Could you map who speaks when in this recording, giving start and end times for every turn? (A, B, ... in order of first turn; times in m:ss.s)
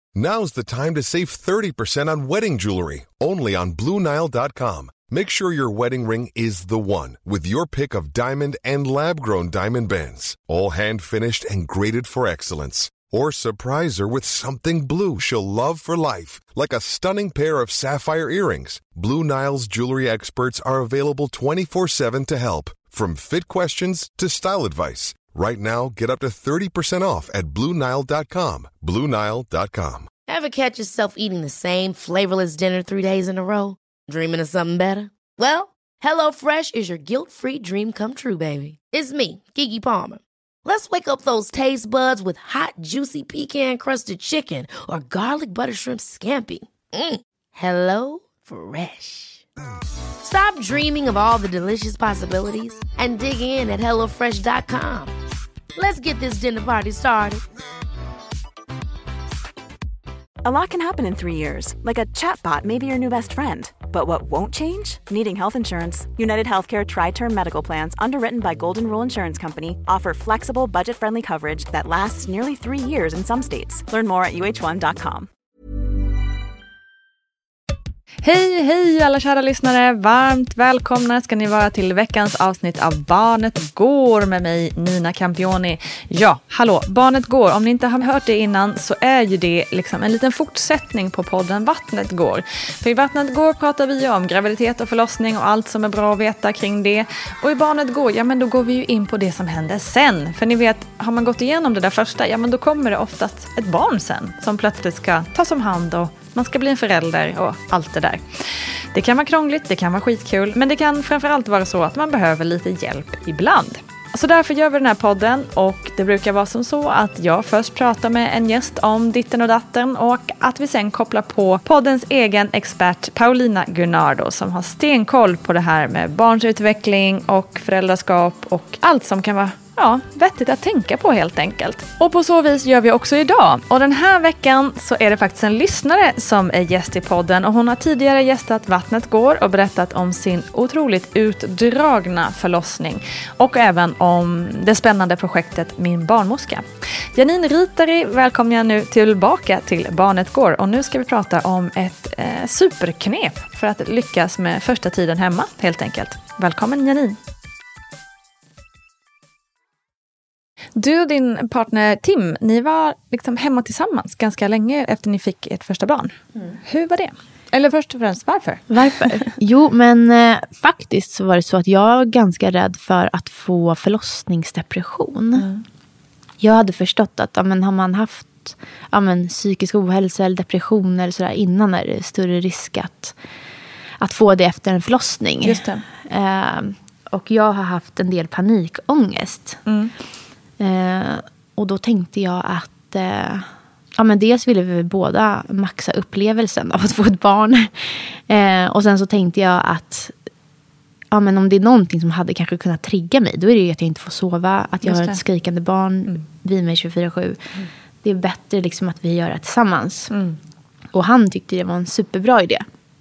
0:00.2-0:30.1 A
0:30.3-0:49.4 B
0:50.2-0:55.1 B
0:55.8-0:57.4 B
1:00.4-1:15.3 C
1:18.2-2:37.2 D
2:40.8-2:49.3 D
2:48.7-2:55.4 E
2:55.4-2:55.6 D
2:56.4-3:03.2 E
3:04.0-3:09.6 E
3:05.4-3:05.8 D
3:09.7-3:09.9 D
3:10.6-3:20.1 E
3:21.1-3:27.4 E
3:24.8-3:25.2 D
3:28.0-3:30.1 E
3:30.1-3:30.4 D
3:30.9-3:32.7 E